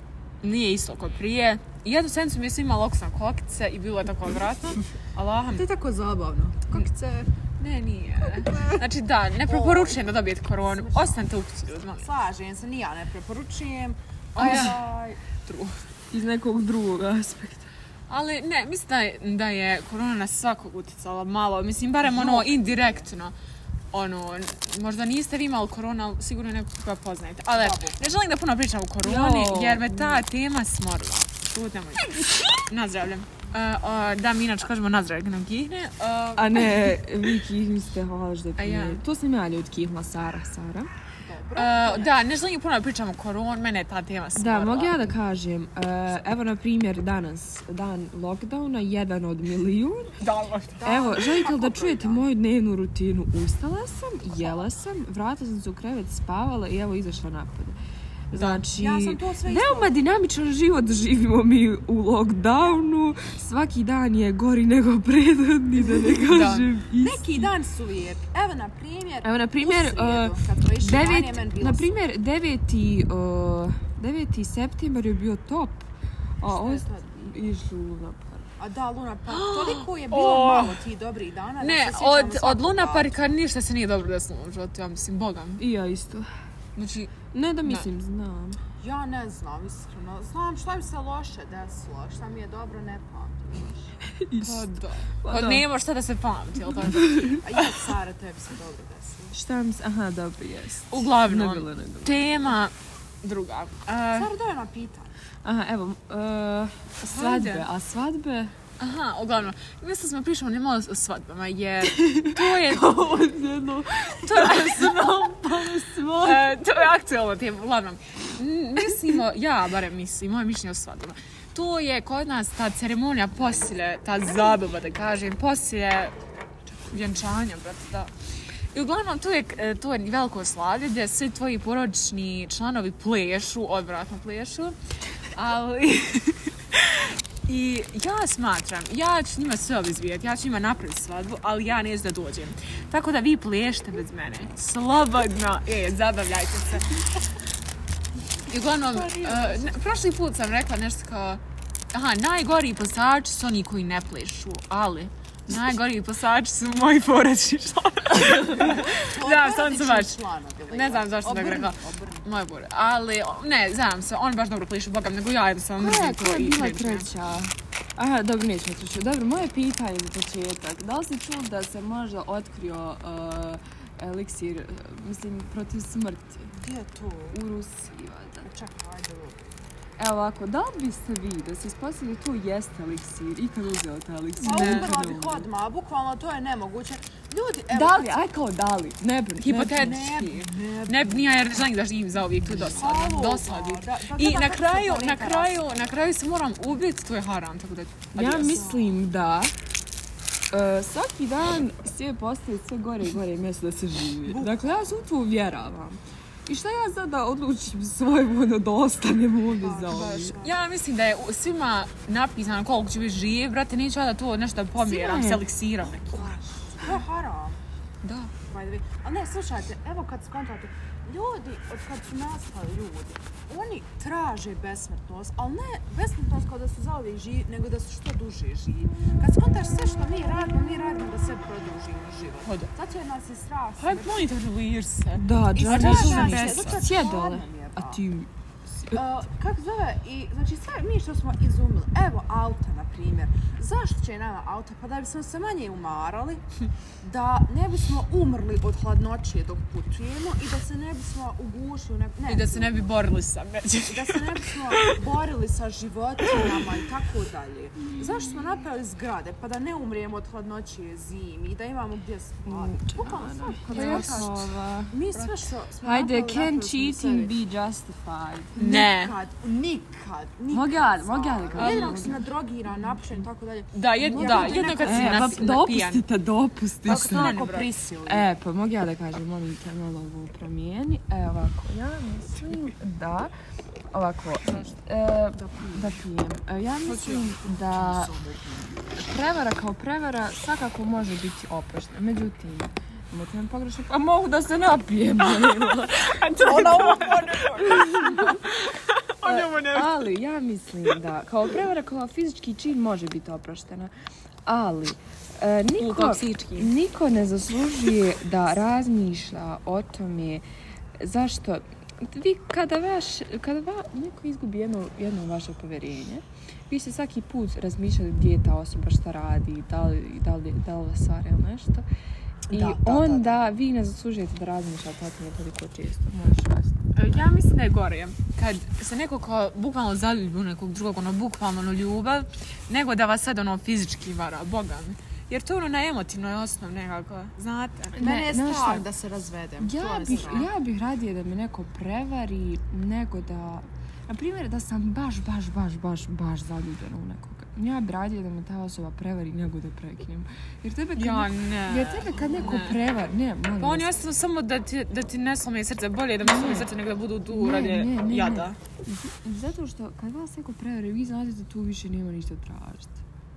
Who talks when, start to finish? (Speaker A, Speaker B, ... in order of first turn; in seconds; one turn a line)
Speaker A: 0.4-5.7
Speaker B: 5.5-7.3
Speaker A: 7.6-12.1
Speaker B: 8.2-8.9
Speaker B: 9.4-15.2
Speaker A: 14.4-14.8
Speaker C: 14.4-14.7
Speaker A: 15.4-15.8
Speaker C: 16.1-17.7
Speaker A: 18.1-23.3
Speaker B: 22.0-23.1
Speaker A: 23.9-37.0
Speaker B: 27.5-28.1
Speaker C: 29.0-30.2
Speaker C: 36.4-40.9
Speaker A: 38.6-39.0
Speaker B: 41.2-42.2
Speaker A: 41.6-45.1
Speaker C: 44.4-50.2
Speaker A: 50.2-50.8
Speaker B: 50.8-52.2
Speaker C: 50.8-57.8
Speaker C: 58.3-67.5
Speaker A: 58.3-58.7
Speaker B: 58.7-60.1
Speaker A: 66.1-66.7
Speaker B: 67.0-72.0
Speaker C: 69.2-75.9
Speaker C: 76.4-78.5
Speaker B: 76.4-77.2
Speaker B: 78.6-83.3
Speaker A: 79.3-80.8
Speaker A: 81.6-85.6
Speaker C: 85.6-86.3
Speaker A: 86.8-87.1
Speaker C: 87.3-88.6
Speaker B: 88.8-93.9
Speaker C: 94.1-95.7
Speaker A: 94.4-97.8
Speaker C: 96.7-97.5
Speaker B: 97.4-99.4
Speaker C: 99.3-102.5
Speaker A: 100.9-104.3
Speaker B: 104.1-105.1
Speaker C: 105.4-108.5
Speaker A: 107.1-107.7
Speaker A: 108.8-113.3
Speaker C: 111.8-116.5
Speaker A: 114.1-126.2
Speaker B: 124.3-124.7
Speaker A: 126.9-128.1
Speaker A: 128.7-134.8
Speaker A: 135.3-147.0
Speaker A: 148.5-151.4
Speaker B: 148.9-150.0
Speaker A: 151.9-160.2
Speaker B: 158.6-162.2
Speaker A: 160.7-167.1
Speaker C: 165.8-176.6
Speaker B: 176.5-177.4
Speaker C: 177.3-178.5
Speaker B: 178.4-179.6
Speaker C: 180.0-185.5
Speaker A: 184.4-184.9
Speaker B: 184.4-188.2
Speaker C: 187.7-190.1
Speaker A: 189.4-198.6
Speaker B: 189.7-191.7
Speaker B: 192.4-196.1
Speaker C: 198.1-199.5
Speaker B: 198.5-199.0
Speaker C: 200.5-210.4
Speaker B: 204.3-204.7
Speaker B: 209.6-210.6
Speaker A: 209.9-216.3
Speaker C: 214.8-215.4
Speaker B: 216.1-217.6
Speaker C: 218.0-218.3
Speaker B: 218.4-234.3
Speaker A: 232.4-232.7
Speaker A: 233.8-236.8
Speaker C: 235.2-239.0
Speaker B: 235.5-238.0
Speaker B: 238.9-246.4
Speaker B: 247.0-253.0
Speaker A: 252.3-255.0
Speaker B: 253.9-264.4
Speaker C: 262.5-265.0
Speaker A: 263.7-264.4
Speaker B: 264.9-267.3
Speaker C: 265.8-268.6
Speaker A: 268.6-269.1
Speaker B: 268.6-275.6
Speaker C: 270.5-272.2
Speaker A: 271.6-272.2
Speaker A: 273.7-276.1
Speaker C: 274.0-277.5
Speaker B: 276.9-278.3
Speaker A: 276.9-277.7
Speaker C: 278.1-283.3
Speaker C: 283.9-288.1
Speaker B: 285.4-286.0
Speaker A: 286.9-287.4
Speaker B: 287.4-289.0
Speaker C: 289.0-296.8
Speaker A: 295.4-300.0
Speaker B: 296.4-297.7
Speaker C: 297.6-298.4
Speaker C: 299.2-303.9
Speaker C: 304.5-310.4
Speaker A: 305.8-306.7
Speaker C: 311.0-321.9
Speaker B: 322.5-323.4
Speaker C: 322.5-326.9
Speaker A: 326.9-337.9
Speaker C: 337.9-338.9
Speaker B: 338.0-340.5
Speaker C: 339.6-354.0
Speaker A: 351.0-352.8
Speaker A: 353.6-358.6
Speaker C: 356.2-356.7
Speaker C: 357.3-363.0